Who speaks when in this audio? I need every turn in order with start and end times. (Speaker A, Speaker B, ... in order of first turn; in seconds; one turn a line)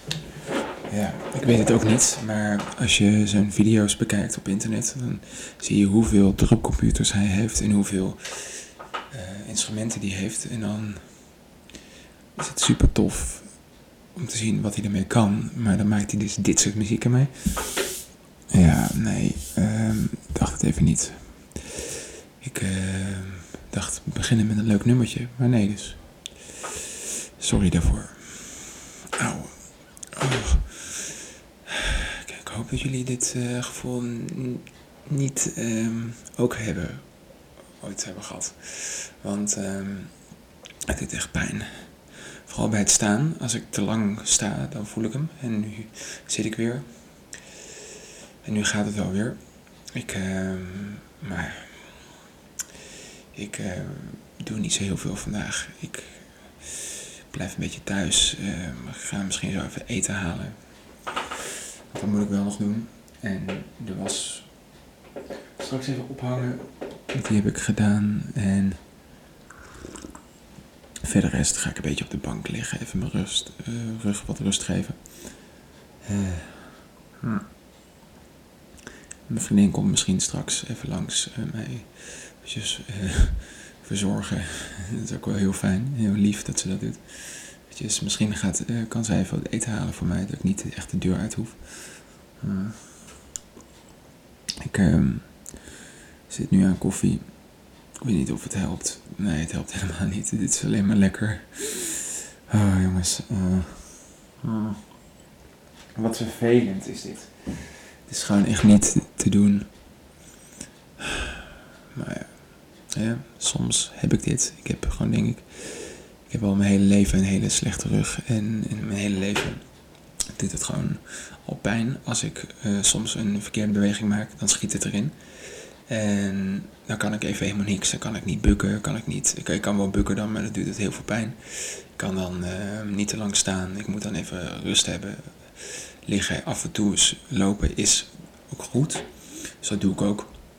Speaker A: 0.9-11.2
Speaker A: 12.3-13.6
Speaker A: 14.1-17.9
Speaker A: 18.5-21.8
Speaker A: 22.4-26.5
Speaker A: 27.4-31.1
Speaker A: 31.7-47.4
Speaker A: 48.4-52.1
Speaker A: 53.3-61.0
Speaker A: 61.9-64.8
Speaker A: 65.6-68.8
Speaker A: 71.0-75.3
Speaker A: 76.0-77.4
Speaker A: 79.3-93.0
Speaker A: 94.6-95.7
Speaker A: 96.3-104.9
Speaker A: 106.0-109.7
Speaker A: 111.9-119.7
Speaker A: 120.3-140.3